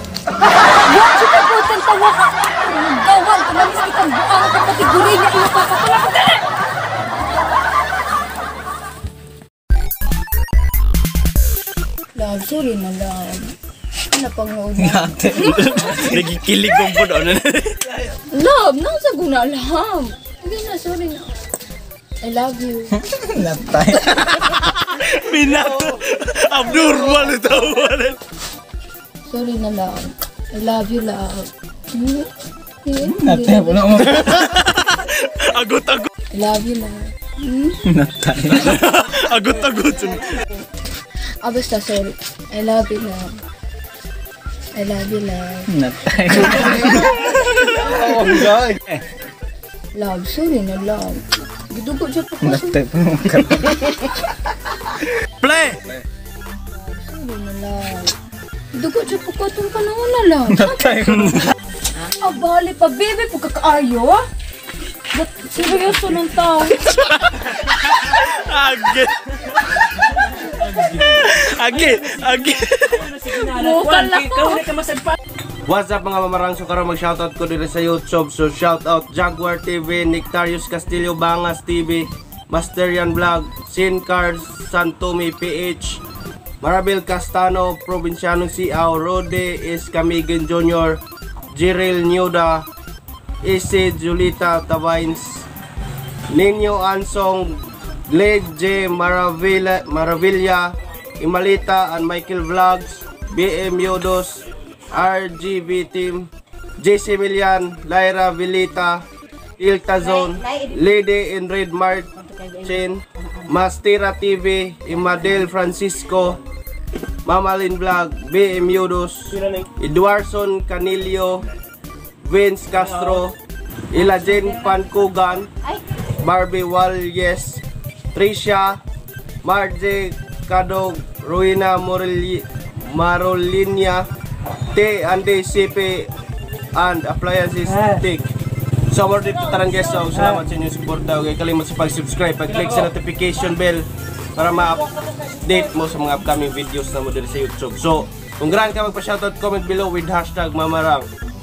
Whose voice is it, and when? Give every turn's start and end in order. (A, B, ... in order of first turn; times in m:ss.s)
0:00.8-0:06.4 A
0:12.1-0:13.6 A
0:14.1-0:16.1 A
0:14.8-0:16.2 B
0:16.0-0:17.8 C
0:18.3-0:21.3 A
0:22.2-0:23.0 A
0:23.0-0:24.2 B
0:25.0-0:28.2 C
0:29.2-0:32.3 A
0:32.8-0:34.0 A
0:33.0-0:34.4 B
0:34.4-0:36.1 C
0:36.3-0:37.8 A
0:37.8-0:38.8 B
0:38.9-0:40.2 C
0:41.4-0:43.4 A
0:44.7-0:45.7 A
0:45.7-0:47.1 B
0:48.2-0:48.7 B
0:49.9-0:52.8 A
0:52.4-0:54.1 B
0:55.4-0:55.8 C
0:56.7-0:58.1 A
0:58.7-1:00.9 A
1:00.5-1:01.5 B
1:02.0-1:04.2 A
1:05.1-1:06.8 A
1:07.9-1:09.2 C
1:11.0-1:13.2 C
1:13.2-1:14.9 A
1:15.7-1:26.0 D
1:26.6-1:31.0 D
1:31.5-1:32.7 D
1:33.4-1:35.5 D
1:36.3-1:49.0 D
1:49.6-1:56.4 D
1:57.2-2:01.4 D
2:02.2-2:03.3 D
2:03.9-2:05.5 D
2:06.2-2:07.6 D
2:08.1-2:08.8 D
2:09.4-2:14.1 D
2:14.7-2:16.1 D
2:16.7-2:18.3 D
2:18.9-2:24.9 D
2:25.4-2:31.1 D